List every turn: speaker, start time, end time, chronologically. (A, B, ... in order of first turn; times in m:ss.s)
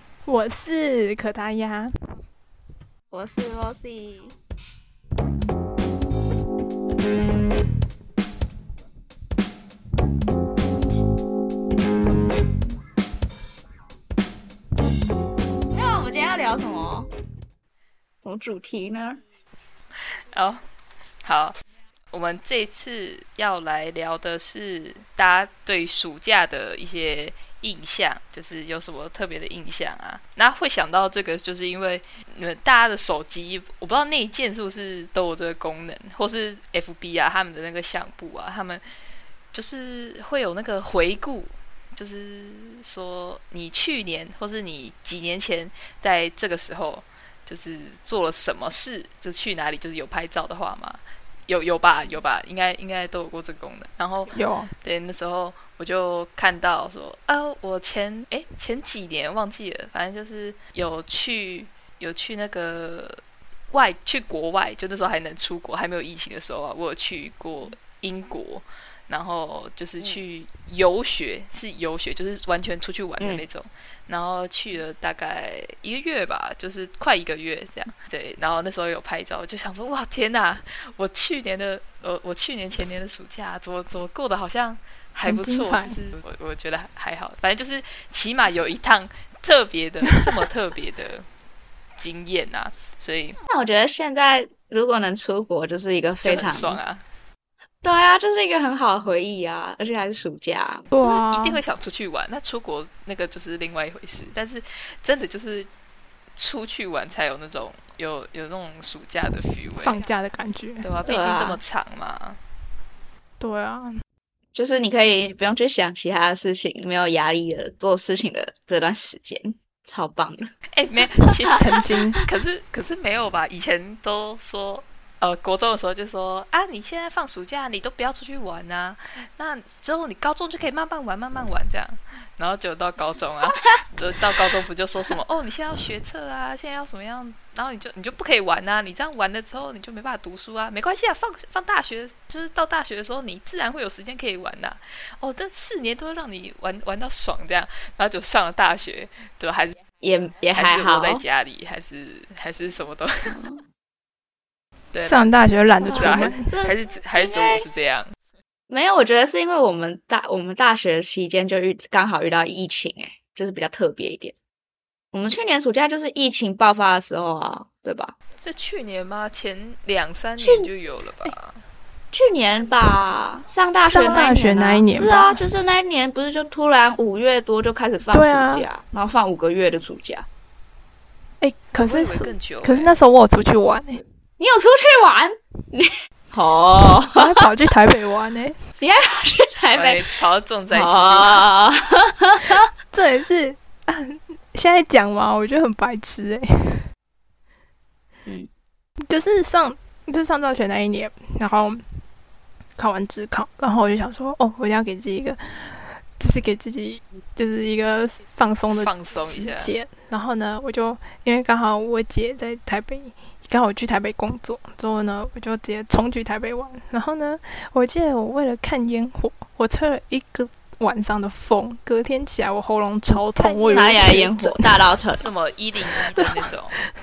0:00.2-0:01.9 A
0:03.1-0:04.4 B
0:15.7-0:17.1 B
0:18.2-0:19.2 B
0:20.3-0:20.6 C
0:21.2-0:21.5 C
0:22.1-0:38.8 C
0:39.5-1:31.3 C
0:54.3-0:54.7 A
1:25.3-1:26.0 A
1:32.0-1:33.4 C
1:33.5-1:36.8 B
1:36.2-1:37.0 C
1:37.8-1:40.8 B
1:40.9-1:41.6 A
1:41.0-1:45.7 C
1:46.4-1:50.0 C
1:49.8-1:50.9 A
1:50.8-1:52.4 C
1:51.0-1:51.6 B
1:53.4-1:53.9 A
1:54.5-2:00.5 B
2:00.7-2:29.8 C
2:01.5-2:02.2 A
2:13.4-2:13.8 B
2:30.0-2:31.2 B
2:30.5-2:33.4 C
2:33.3-2:33.6 B
2:34.9-2:38.1 C
2:35.0-2:36.5 A
2:35.8-2:37.6 B
2:38.7-2:44.3 B
2:45.1-2:48.2 B
2:48.4-2:51.6 C
2:50.4-2:50.7 B
2:52.1-3:00.3 B
2:53.8-2:55.4 A
2:58.1-2:58.7 A
3:01.4-3:04.0 A
3:01.7-3:02.9 C
3:04.4-3:07.4 B
3:07.1-3:08.6 A
3:08.8-3:10.0 B
3:09.7-3:11.5 C
3:10.7-3:12.7 B
3:12.9-3:16.8 A
3:19.1-3:21.8 A
3:22.8-3:44.9 A
3:28.7-3:29.7 C
3:43.1-3:45.3 B
3:43.6-3:44.0 C
3:45.2-3:46.8 C
3:45.9-3:46.4 A